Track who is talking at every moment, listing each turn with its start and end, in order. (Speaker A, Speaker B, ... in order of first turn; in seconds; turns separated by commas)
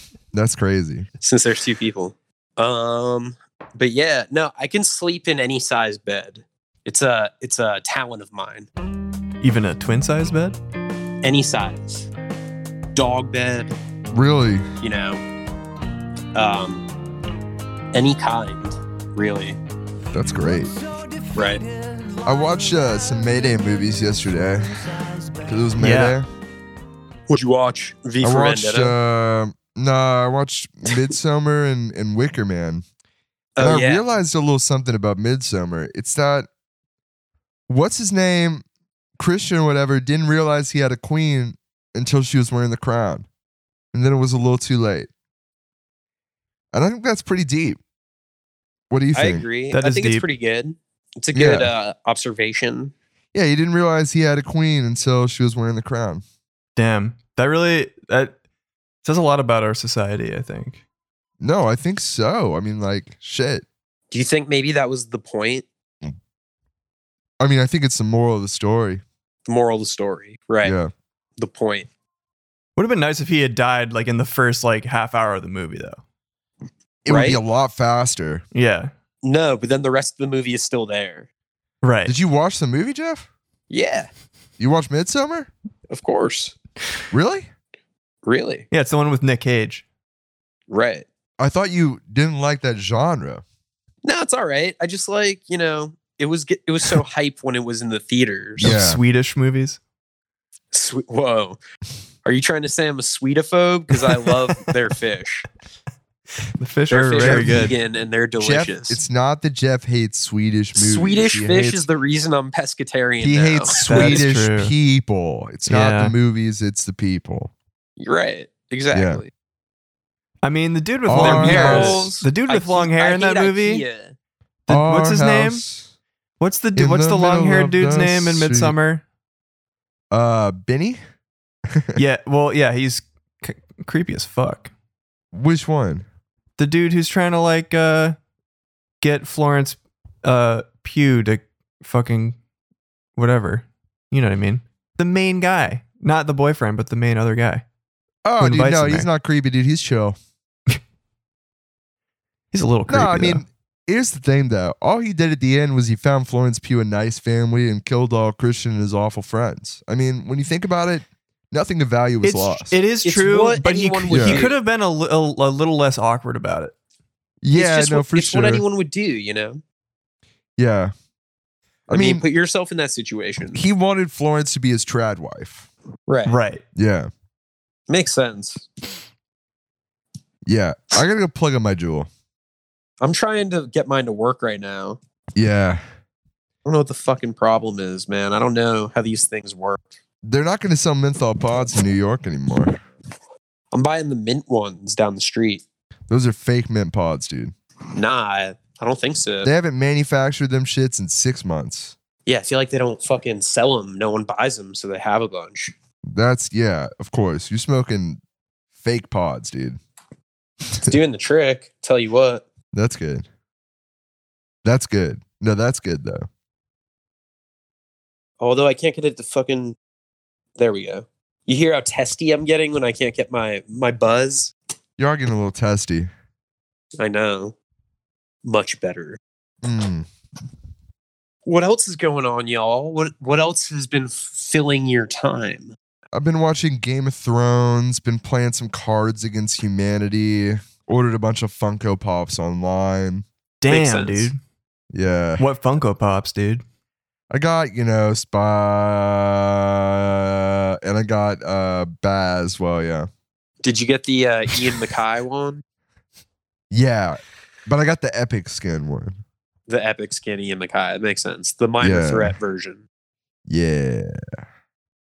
Speaker A: 0.3-1.1, Speaker B: 1.2-8.7, Speaker C: 9.4-10.6, Speaker B: 11.2-12.1, Speaker B: 12.9-13.7, Speaker A: 14.1-14.7, Speaker B: 14.8-15.2, Speaker B: 16.3-16.8, Speaker B: 17.9-19.6, Speaker A: 20.1-20.8, Speaker B: 21.3-21.6, Speaker A: 22.2-26.3, Speaker C: 25.8-26.2, Speaker B: 27.3-28.9, Speaker A: 28.2-32.8, Speaker B: 33.6-34.0, Speaker A: 33.6-36.5, Speaker A: 37.7-38.6, Speaker A: 39.2-43.3, Speaker A: 43.9-45.1, Speaker A: 46.7-47.8, Speaker A: 48.9-49.4, Speaker B: 49.1-52.9, Speaker C: 49.7-50.2, Speaker A: 51.3-51.7, Speaker A: 53.3-56.2, Speaker C: 56.8-58.3, Speaker C: 59.0-60.8, Speaker A: 61.4-63.6, Speaker B: 64.1-65.6, Speaker A: 67.4-69.0, Speaker B: 69.5-70.8, Speaker A: 70.6-70.9, Speaker B: 71.4-71.9, Speaker C: 72.8-76.0, Speaker A: 77.0-78.4, Speaker B: 77.1-77.4, Speaker C: 78.5-78.9, Speaker B: 79.2-81.3, Speaker C: 81.8-82.1, Speaker A: 82.0-83.3, Speaker B: 83.7-84.1, Speaker A: 84.6-85.5, Speaker B: 85.9-86.5, Speaker A: 87.1-87.5, Speaker B: 88.2-88.7, Speaker C: 88.7-89.8, Speaker B: 90.7-91.0, Speaker A: 91.4-93.4, Speaker B: 94.0-98.7, Speaker C: 98.6-99.8, Speaker A: 98.6-99.0, Speaker B: 100.7-101.6, Speaker B: 102.2-105.5, Speaker C: 106.6-107.8, Speaker B: 106.9-109.0, Speaker A: 107.2-107.7, Speaker A: 108.4-111.8, Speaker B: 110.7-114.2, Speaker A: 113.2-117.5, Speaker C: 113.8-114.7, Speaker C: 115.7-116.1, Speaker B: 118.0-119.3, Speaker A: 118.9-119.2, Speaker C: 120.4-123.8, Speaker A: 121.0-122.1, Speaker B: 121.1-124.1, Speaker C: 124.7-125.6, Speaker A: 124.7-125.9, Speaker C: 126.4-129.0, Speaker A: 126.8-128.8, Speaker A: 130.1-131.0, Speaker A: 131.7-132.0, Speaker C: 131.9-134.7, Speaker A: 135.3-136.1, Speaker C: 136.6-138.2, Speaker C: 139.0-142.4, Speaker C: 143.2-147.6, Speaker A: 148.2-150.2, Speaker C: 148.4-149.1, Speaker C: 152.5-153.4, Speaker A: 152.9-162.7, Speaker C: 162.2-166.7, Speaker B: 163.0-164.6, Speaker A: 164.1-164.4, Speaker A: 167.4-168.6, Speaker B: 167.5-169.6, Speaker A: 170.6-170.9, Speaker A: 171.9-172.2, Speaker B: 171.9-173.6, Speaker A: 173.5-175.7, Speaker B: 176.1-176.3, Speaker C: 176.2-176.6, Speaker A: 176.7-177.1, Speaker B: 177.9-178.7, Speaker A: 180.4-182.1, Speaker B: 183.0-185.0, Speaker A: 185.3-185.8, Speaker B: 186.6-189.8, Speaker A: 190.2-192.8, Speaker B: 193.7-195.6, Speaker A: 196.1-197.5, Speaker B: 197.9-199.5, Speaker A: 199.4-201.9, Speaker B: 202.2-205.7, Speaker A: 206.1-208.2, Speaker A: 208.8-209.8, Speaker B: 210.8-212.4, Speaker A: 212.7-213.2, Speaker A: 214.6-216.3, Speaker B: 218.4-219.8, Speaker B: 220.6-224.5, Speaker A: 225.0-226.1, Speaker B: 227.0-227.5, Speaker B: 228.4-229.2, Speaker A: 229.6-230.1, Speaker B: 231.4-235.7, Speaker A: 236.1-243.2, Speaker C: 243.6-244.4, Speaker B: 243.7-244.3, Speaker A: 244.9-245.4, Speaker C: 245.4-246.6, Speaker A: 247.3-253.1, Speaker B: 253.6-255.6, Speaker A: 256.7-259.2, Speaker B: 259.7-262.8, Speaker A: 261.8-262.3, Speaker A: 263.5-264.4